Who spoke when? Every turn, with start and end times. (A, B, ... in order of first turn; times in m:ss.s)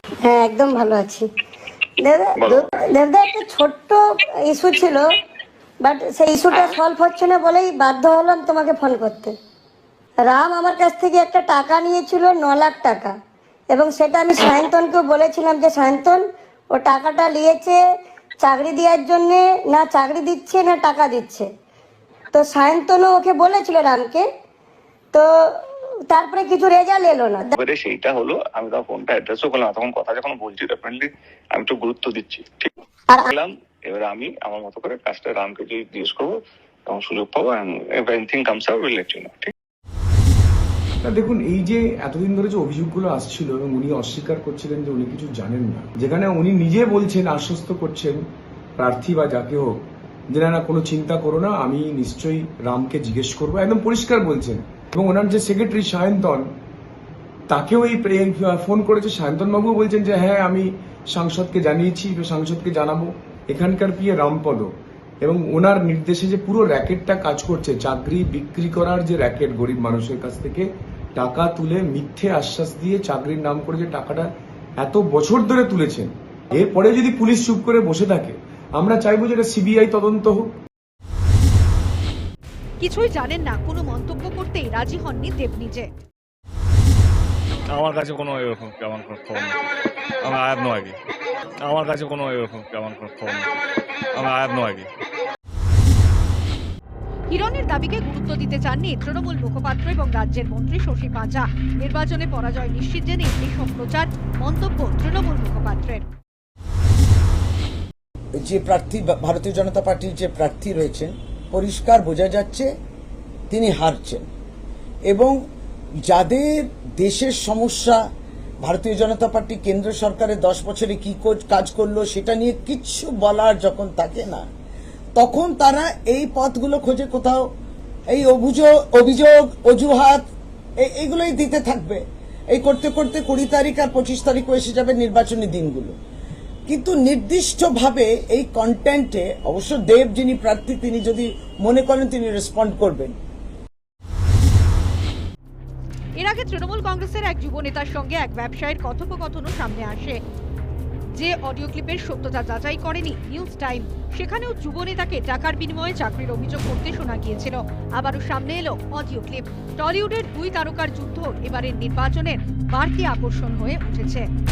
0:00.2-0:01.3 A
0:02.0-0:05.1 A
0:02.4-0:02.7 B
0:05.8-0:09.3 A
0:10.2-0:13.2 A
0:13.7-0:17.8 A
0:18.4-0:21.5 A
0:22.3-0:24.2 A
0:26.1-0:27.5 A
0:27.5-0:32.7 B
0:33.3-0:39.5 B
0:41.1-0:48.2 C
0:48.8-0:49.8 C
0:50.4-0:56.4 C
0:57.5-1:04.7 C
1:05.2-1:10.6 C
1:11.2-1:14.3 C
1:14.8-1:20.4 C
1:22.8-1:25.9 D
1:27.7-1:29.6 E
1:30.2-1:31.0 E
1:31.6-1:33.5 E
1:34.1-1:34.9 E
1:37.3-1:46.1 D
1:48.4-1:52.7 F
1:53.5-1:54.3 F
1:55.1-1:55.4 F
1:56.1-1:58.0 F
1:58.6-2:04.5 F
2:05.2-2:07.5 F
2:08.1-2:10.3 F
2:10.8-2:16.0 F
2:16.7-2:23.2 F
2:26.2-2:30.2 D
2:31.2-2:44.3 D